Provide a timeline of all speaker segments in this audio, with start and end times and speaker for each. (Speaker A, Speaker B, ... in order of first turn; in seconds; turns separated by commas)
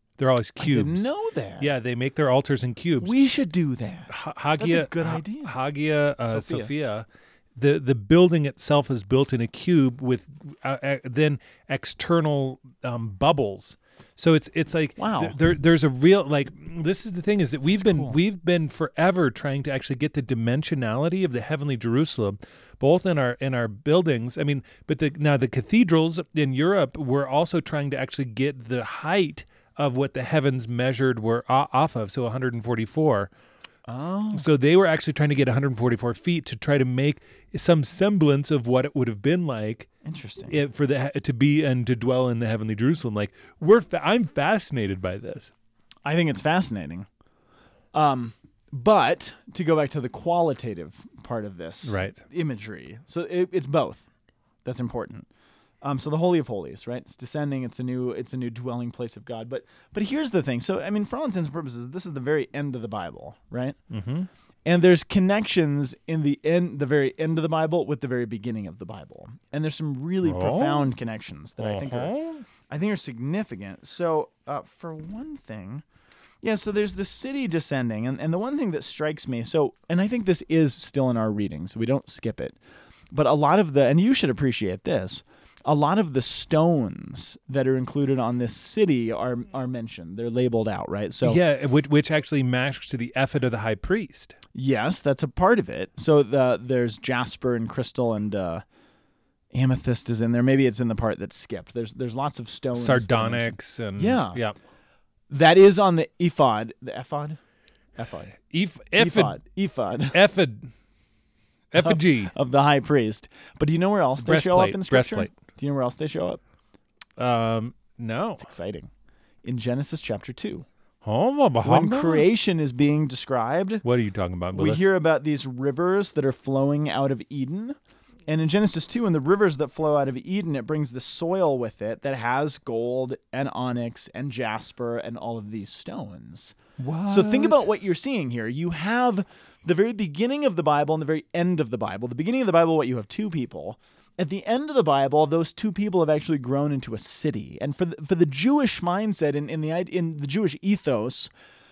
Speaker A: 0.2-3.1, Speaker B: 0.6-1.8, Speaker B: 3.0-5.5, Speaker A: 4.1-33.3, Speaker B: 6.2-6.7, Speaker B: 15.0-15.4, Speaker B: 17.7-18.2, Speaker B: 33.9-34.5, Speaker A: 34.3-39.9, Speaker B: 40.0-40.6, Speaker A: 40.5-45.5, Speaker B: 46.0-47.1, Speaker B: 47.9-54.1, Speaker A: 51.8-52.2, Speaker B: 54.6-55.3, Speaker B: 55.8-63.8, Speaker A: 63.9-64.3, Speaker B: 64.7-72.1, Speaker A: 70.2-70.9, Speaker A: 71.6-72.4, Speaker B: 72.7-75.8, Speaker B: 76.4-82.6, Speaker B: 83.1-91.4, Speaker A: 91.2-94.4, Speaker B: 94.5-98.6, Speaker B: 99.5-104.4, Speaker A: 102.7-104.5, Speaker B: 105.3-107.4, Speaker B: 108.0-108.4, Speaker A: 108.5-109.4, Speaker B: 109.0-110.2, Speaker A: 110.1-110.7, Speaker A: 111.7-112.3, Speaker B: 111.8-116.4, Speaker A: 114.2-115.3, Speaker A: 117.2-118.5, Speaker B: 118.4-118.9, Speaker B: 119.4-120.7, Speaker A: 121.0-122.3, Speaker B: 121.6-123.8, Speaker A: 123.8-124.9, Speaker B: 124.5-127.8, Speaker B: 128.3-151.3, Speaker A: 136.8-137.6